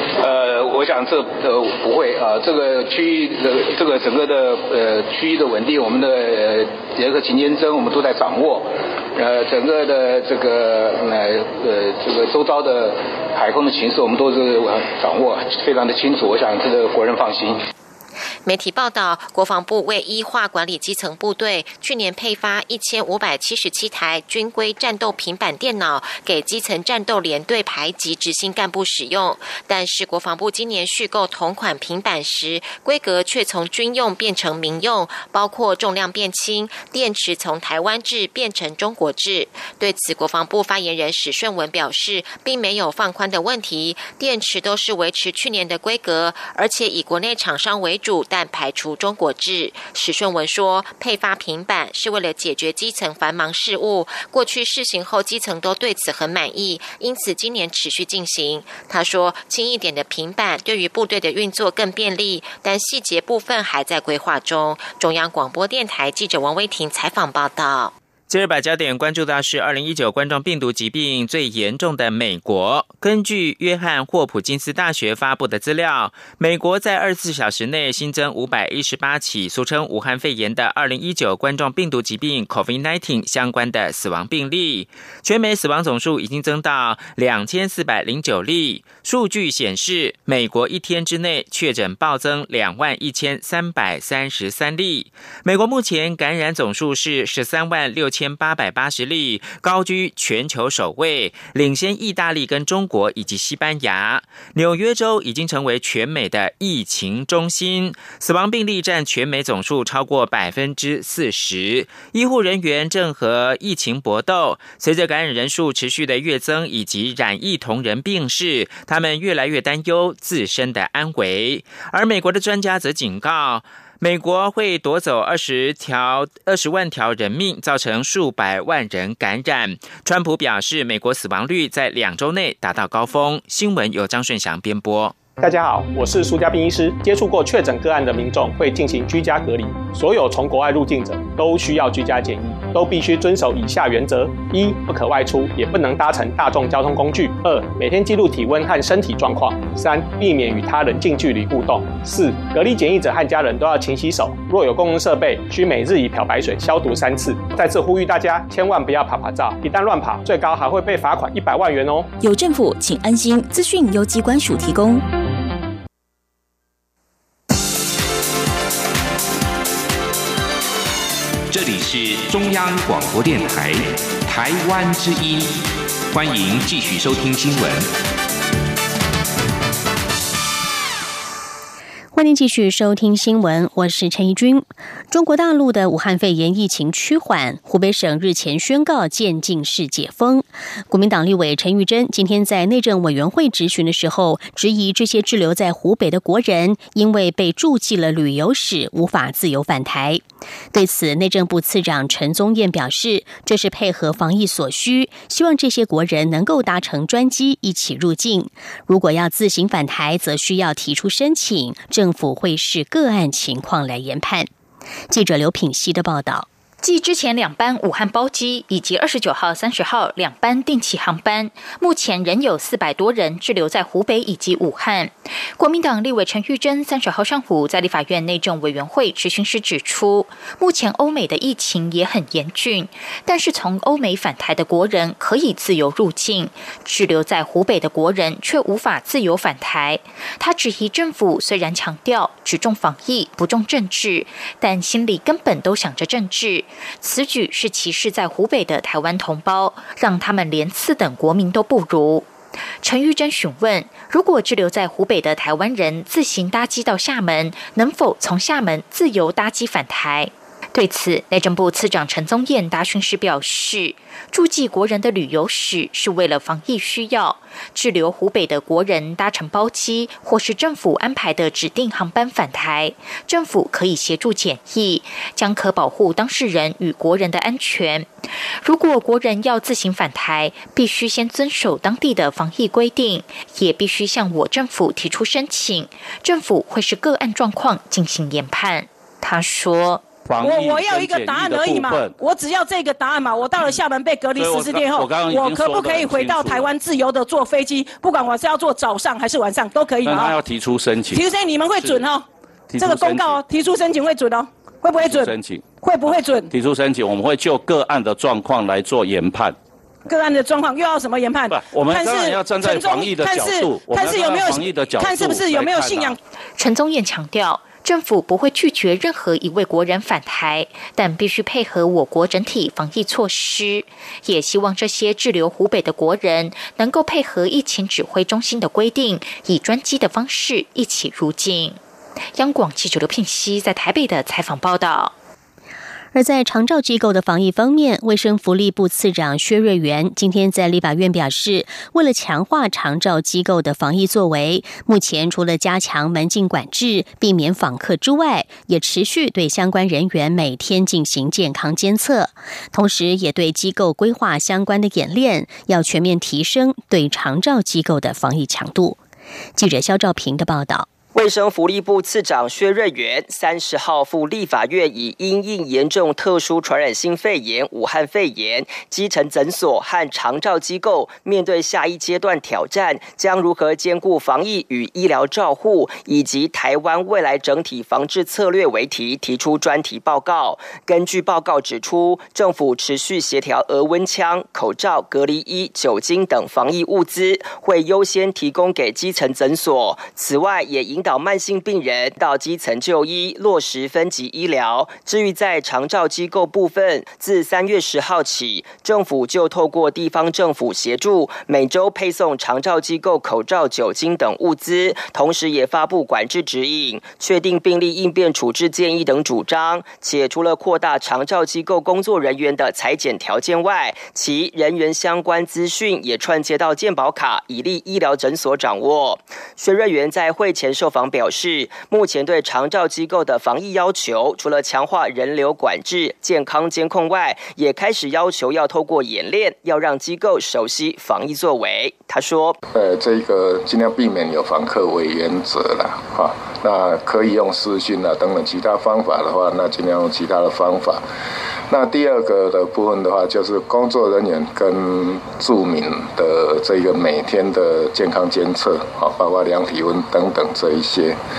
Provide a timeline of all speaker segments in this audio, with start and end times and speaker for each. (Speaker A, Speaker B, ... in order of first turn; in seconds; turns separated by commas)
Speaker A: 0.2-17.6, Speaker B: 18.4-67.9, Speaker C: 68.3-135.1, Speaker D: 135.4-162.1, Speaker E: 162.2-165.0, Speaker F: 171.5-175.5, Speaker F: 176.1-177.8, Speaker G: 182.1-200.2, Speaker G: 200.7-214.5, Speaker G: 215.1-216.5, Speaker H: 216.8-252.2, Speaker H: 252.8-278.1, Speaker H: 278.6-290.0, Speaker I: 290.2-292.1, Speaker J: 290.4-300.4, Speaker I: 294.3-296.7, Speaker I: 300.0-301.2, Speaker J: 301.1-302.2, Speaker I: 301.8-302.1, Speaker I: 302.7-303.4, Speaker J: 302.8-306.5, Speaker I: 305.0-309.6, Speaker J: 310.1-316.2, Speaker I: 311.5-316.1, Speaker H: 316.6-331.8, Speaker H: 332.3-335.1, Speaker G: 336.1-359.0, Speaker G: 359.6-360.9, Speaker K: 361.1-432.6, Speaker L: 432.7-441.0, Speaker L: 441.7-451.2